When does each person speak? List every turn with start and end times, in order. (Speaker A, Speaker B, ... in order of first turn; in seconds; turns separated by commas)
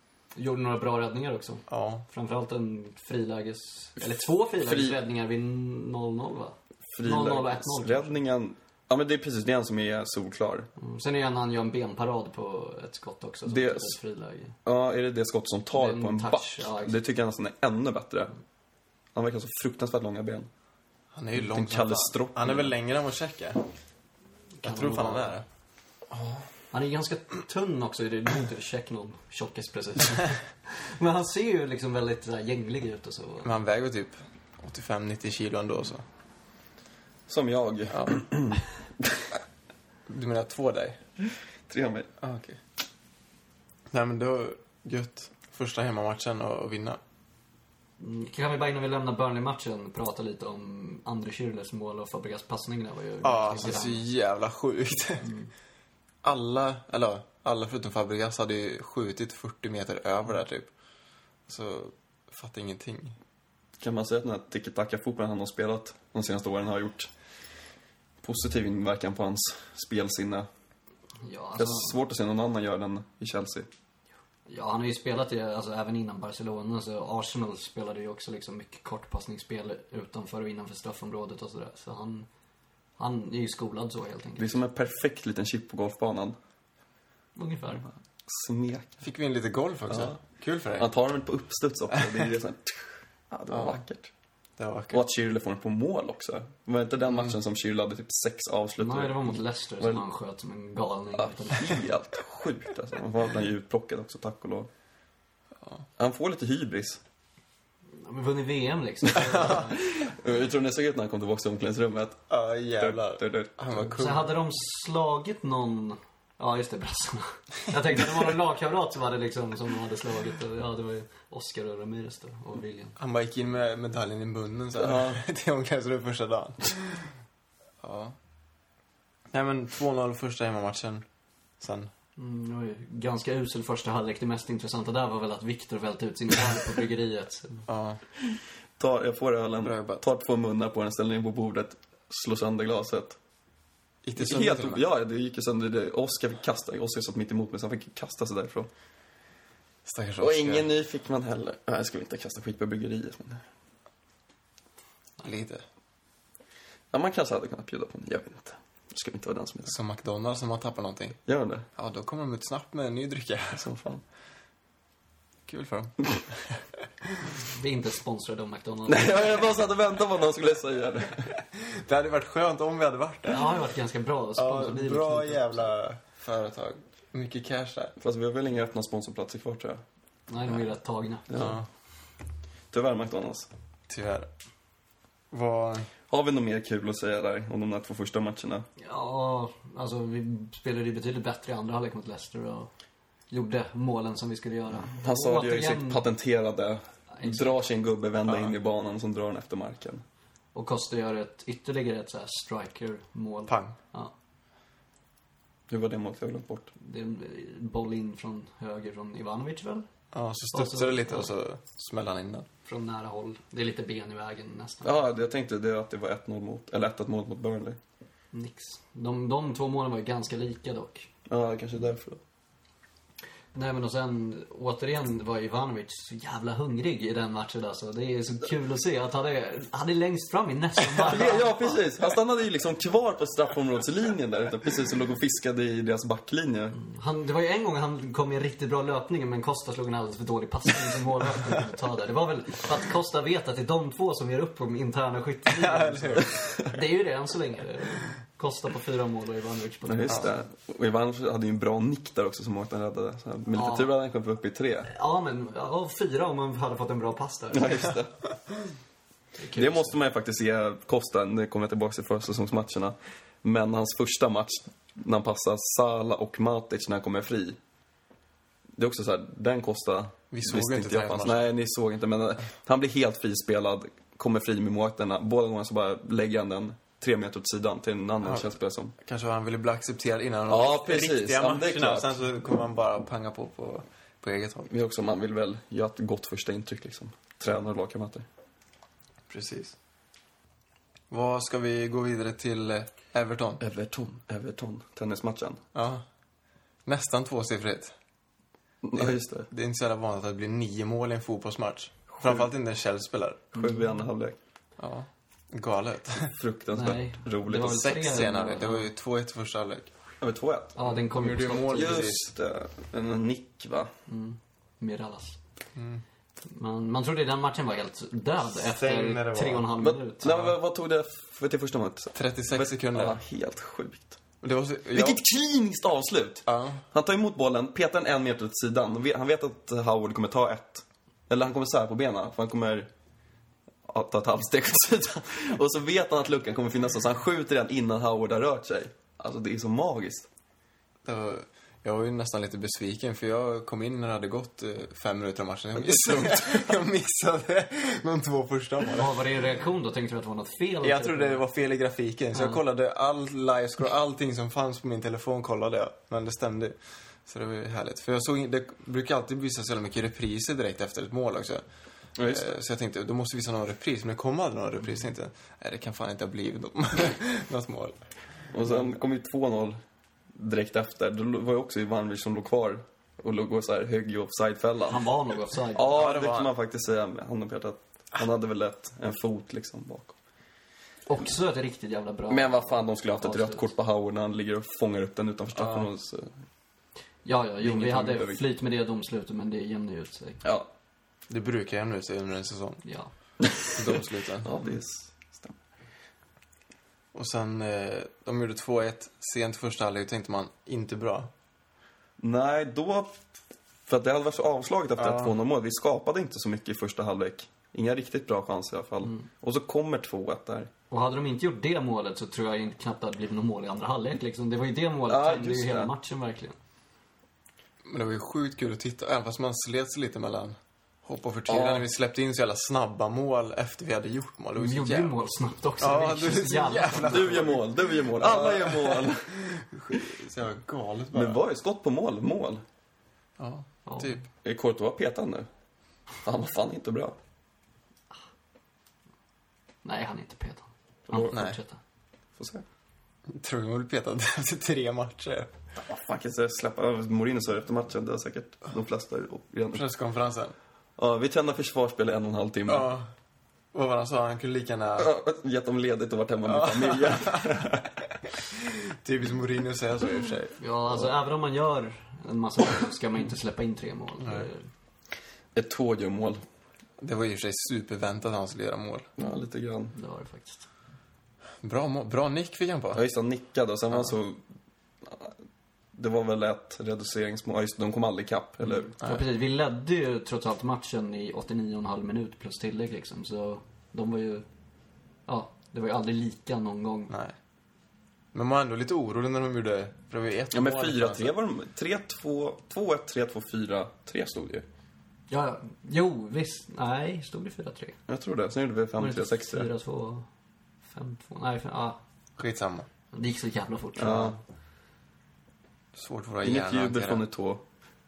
Speaker A: 0.4-8.2, Speaker B: 1.7-2.0, Speaker C: 4.0-5.0, Speaker C: 6.9-10.7, Speaker A: 10.8-14.6, Speaker C: 13.5-14.0, Speaker C: 14.7-18.3, Speaker A: 15.7-17.0, Speaker C: 19.1-20.5, Speaker B: 21.1-23.6, Speaker C: 21.4-22.7, Speaker A: 24.6-25.4, Speaker B: 24.6-25.4, Speaker A: 26.7-33.5, Speaker B: 33.5-36.0, Speaker C: 37.3-38.6, Speaker B: 37.9-38.2, Speaker B: 40.1-41.0, Speaker C: 41.7-42.1, Speaker B: 42.2-42.6, Speaker B: 43.9-47.0, Speaker A: 48.0-54.0, Speaker B: 53.2-55.3, Speaker B: 56.2-60.7, Speaker B: 61.5-63.2, Speaker C: 63.8-67.1, Speaker C: 68.2-70.5, Speaker A: 71.2-72.0, Speaker C: 71.6-73.7, Speaker A: 74.5-82.3, Speaker A: 83.0-84.6, Speaker C: 84.4-86.4, Speaker A: 87.4-87.8, Speaker C: 88.3-89.0, Speaker B: 89.0-90.9, Speaker C: 89.9-90.2, Speaker C: 90.8-94.1, Speaker B: 93.5-93.8, Speaker B: 94.6-95.0, Speaker C: 94.9-100.0, Speaker A: 98.8-101.8, Speaker C: 101.2-104.7, Speaker C: 106.0-107.0, Speaker A: 108.0-109.9, Speaker C: 109.8-112.2, Speaker B: 112.3-114.3, Speaker C: 112.8-113.9, Speaker A: 114.0-123.0, Speaker B: 123.0-127.1, Speaker C: 124.8-125.2, Speaker B: 127.8-128.2, Speaker B: 129.3-131.1, Speaker B: 131.6-131.9, Speaker A: 132.2-137.7, Speaker B: 137.7-138.0, Speaker C: 138.8-143.2, Speaker B: 139.6-140.0, Speaker B: 144.0-144.8, Speaker C: 144.2-148.7, Speaker B: 149.8-150.7, Speaker C: 150.2-153.4, Speaker B: 155.2-155.6, Speaker C: 156.9-159.7, Speaker B: 159.7-161.2, Speaker C: 161.3-161.7, Speaker B: 161.8-163.7, Speaker C: 163.6-164.0, Speaker B: 165.5-166.6, Speaker A: 167.4-169.5, Speaker C: 168.9-171.3, Speaker B: 171.3-173.5, Speaker A: 173.3-175.6, Speaker B: 174.4-177.9, Speaker C: 178.0-179.8, Speaker A: 180.3-181.3, Speaker C: 181.3-181.6, Speaker B: 181.3-181.7, Speaker C: 182.7-183.5, Speaker B: 183.9-184.3, Speaker B: 185.3-185.9, Speaker C: 186.1-188.7, Speaker A: 188.8-192.7, Speaker A: 193.3-196.0, Speaker C: 194.9-200.0, Speaker A: 197.2-197.6, Speaker A: 200.6-204.1, Speaker B: 203.5-203.8, Speaker C: 205.7-206.7, Speaker A: 206.8-209.9, Speaker B: 210.1-212.5, Speaker A: 210.5-211.3, Speaker A: 212.7-215.0, Speaker C: 214.8-217.8, Speaker A: 218.3-221.1, Speaker C: 221.3-222.2, Speaker A: 223.5-231.8, Speaker C: 231.0-236.8, Speaker A: 236.8-250.3, Speaker B: 245.5-246.6, Speaker C: 249.9-254.9, Speaker A: 253.5-253.9, Speaker A: 254.9-258.0, Speaker C: 257.5-258.1, Speaker A: 259.4-259.9, Speaker C: 259.5-267.6, Speaker C: 268.8-278.9, Speaker B: 270.3-271.5, Speaker B: 278.2-284.7, Speaker C: 280.5-282.2, Speaker C: 284.7-288.3, Speaker B: 289.3-289.8, Speaker B: 291.1-293.6, Speaker C: 293.6-295.6, Speaker B: 295.7-296.0, Speaker B: 296.9-297.9, Speaker C: 298.8-299.5, Speaker B: 299.0-303.6, Speaker C: 302.1-302.5, Speaker C: 303.5-304.4, Speaker B: 304.8-306.4, Speaker C: 306.3-308.2, Speaker A: 306.7-308.9, Speaker B: 307.6-309.9, Speaker C: 310.2-310.8, Speaker A: 310.8-312.1, Speaker B: 311.1-312.2, Speaker C: 311.7-313.9, Speaker A: 314.1-315.4, Speaker B: 315.8-316.0, Speaker A: 316.5-320.5, Speaker B: 318.6-319.7, Speaker C: 319.8-324.2, Speaker B: 322.1-323.2, Speaker B: 324.4-325.2, Speaker C: 324.9-332.9, Speaker B: 326.5-326.8, Speaker C: 333.9-340.3, Speaker B: 341.1-349.2, Speaker C: 345.8-346.8, Speaker A: 348.9-351.4, Speaker B: 350.8-361.6, Speaker A: 352.3-352.6, Speaker C: 362.2-362.5, Speaker B: 362.3-368.0, Speaker C: 368.5-369.8, Speaker C: 370.3-375.1, Speaker A: 374.9-376.0, Speaker C: 375.7-380.1, Speaker B: 375.9-376.5, Speaker A: 381.1-383.6, Speaker C: 382.3-386.4, Speaker B: 385.6-385.9, Speaker A: 387.2-390.4, Speaker C: 387.6-388.4, Speaker C: 390.4-390.7, Speaker B: 391.3-392.8, Speaker A: 392.9-393.1, Speaker B: 393.7-394.5, Speaker C: 394.4-395.6, Speaker B: 397.1-401.3, Speaker C: 402.2-403.1, Speaker C: 403.9-410.7, Speaker B: 405.0-405.3, Speaker A: 410.9-416.6, Speaker C: 415.1-415.9, Speaker B: 417.9-425.1, Speaker C: 421.5-421.8, Speaker A: 424.6-427.5, Speaker B: 425.8-431.4, Speaker C: 427.1-429.3, Speaker C: 431.1-432.6, Speaker B: 433.4-434.2, Speaker A: 433.9-434.1, Speaker C: 434.4-435.5, Speaker C: 436.2-437.2, Speaker A: 439.8-441.8, Speaker C: 441.1-441.3, Speaker B: 441.3-441.6, Speaker C: 442.4-442.6, Speaker B: 443.3-445.5, Speaker C: 445.8-449.9, Speaker B: 449.7-450.6, Speaker C: 451.0-452.9, Speaker B: 452.7-453.1, Speaker B: 453.7-455.1, Speaker C: 455.0-457.9, Speaker B: 456.4-457.7, Speaker B: 458.2-460.6, Speaker A: 460.6-464.6, Speaker C: 465.6-466.4, Speaker B: 467.0-469.1, Speaker C: 469.2-469.9, Speaker A: 469.9-470.6, Speaker B: 471.6-473.0, Speaker C: 472.9-474.4, Speaker C: 475.0-475.3, Speaker C: 475.9-478.9, Speaker A: 478.9-484.4, Speaker A: 485.3-487.1, Speaker B: 487.1-487.3, Speaker B: 488.3-491.3, Speaker C: 490.5-494.7, Speaker A: 495.3-498.0, Speaker C: 498.1-499.7, Speaker A: 499.0-500.3, Speaker A: 500.9-502.0, Speaker B: 502.4-502.9, Speaker A: 503.1-504.4, Speaker C: 504.0-504.4, Speaker B: 505.9-507.2, Speaker C: 506.4-507.6